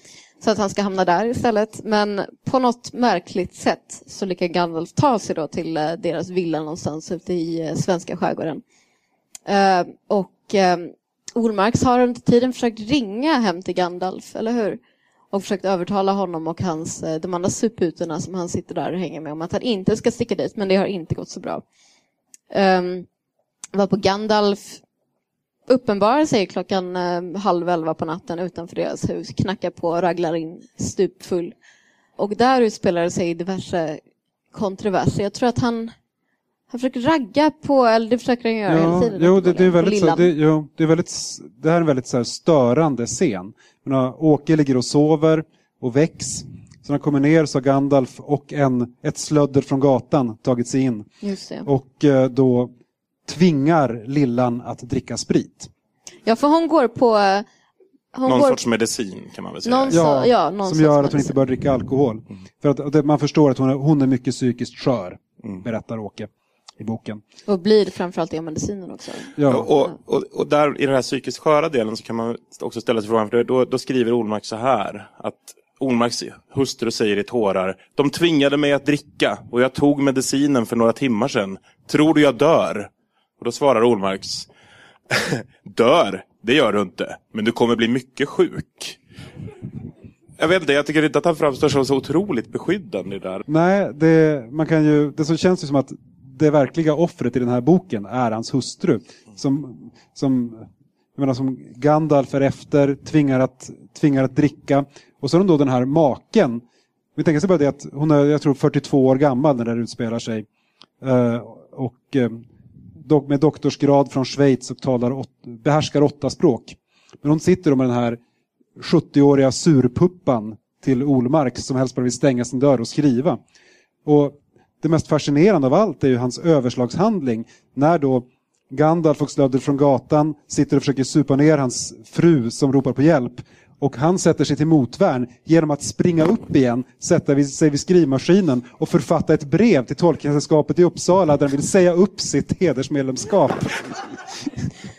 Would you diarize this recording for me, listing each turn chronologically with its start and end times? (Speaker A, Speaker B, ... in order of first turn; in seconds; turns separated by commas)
Speaker A: 0.4-8.6, Speaker A: 9.5-14.8, Speaker A: 15.3-21.6, Speaker A: 22.5-23.1, Speaker A: 23.8-24.8, Speaker A: 25.7-31.5, Speaker A: 32.2-34.0, Speaker A: 34.5-35.9, Speaker A: 36.7-40.3, Speaker B: 38.7-51.1, Speaker A: 51.2-51.7, Speaker B: 51.6-52.7, Speaker B: 53.3-55.7, Speaker A: 56.3-57.5, Speaker A: 58.1-58.6, Speaker C: 58.2-60.0, Speaker A: 59.6-61.4, Speaker B: 59.9-67.2, Speaker A: 67.5-69.9, Speaker B: 69.4-69.7, Speaker C: 69.5-84.5, Speaker C: 85.1-89.0, Speaker C: 90.4-93.4, Speaker B: 93.5-106.6, Speaker B: 107.2-110.5, Speaker B: 111.0-112.4, Speaker B: 113.0-118.2, Speaker B: 118.8-123.4, Speaker B: 124.0-144.5